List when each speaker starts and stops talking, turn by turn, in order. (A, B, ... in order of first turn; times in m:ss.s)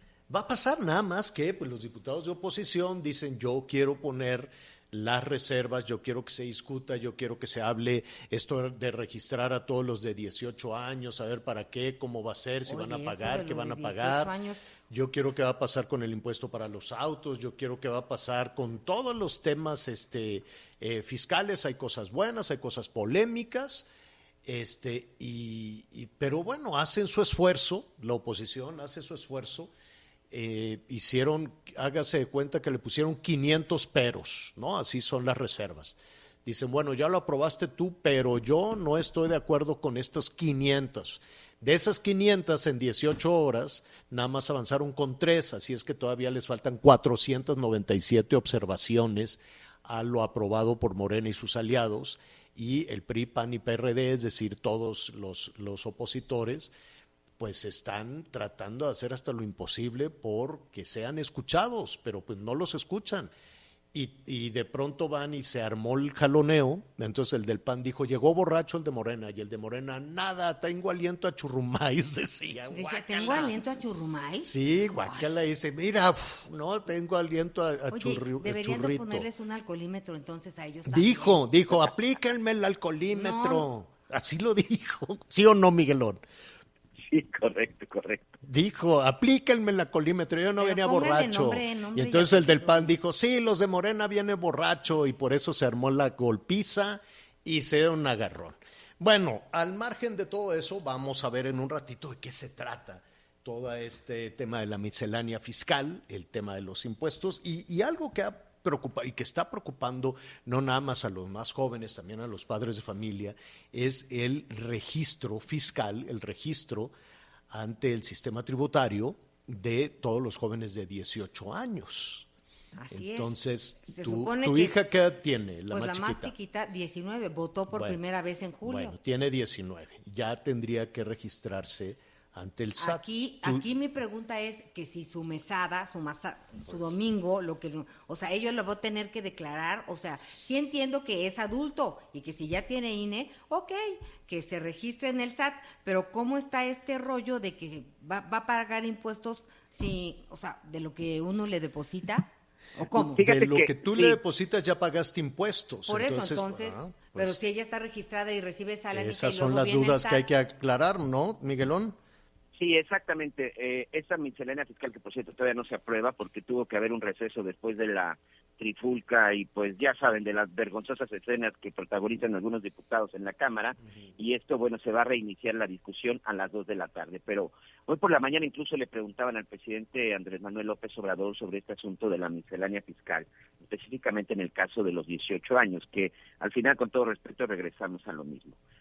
0:00.3-0:14.3 A
0:12.7-0:14.6 B
0:14.9-0:23.9 A
0:24.4-0:29.7 A
0:30.3-0:56.7 A
0:57.4-1:03.3 A
1:03.9-1:13.6 A
1:12.7-1:15.3 B
1:14.4-1:19.3 A
1:17.9-1:21.4 B
1:20.9-1:26.2 A
1:23.1-1:23.7 B
1:27.1-1:28.4 C
1:28.4-1:56.9 A
1:30.6-1:32.9 B
1:57.5-2:02.3 A
2:02.8-2:04.8 B
2:02.9-2:06.3 A
2:05.7-2:09.0 B
2:07.7-2:08.0 A
2:08.6-2:13.6 A
2:12.8-2:33.2 B
2:33.0-2:37.4 A
2:33.1-2:34.2 C
2:35.9-2:40.2 B
2:38.9-2:42.0 A
2:42.6-3:08.6 C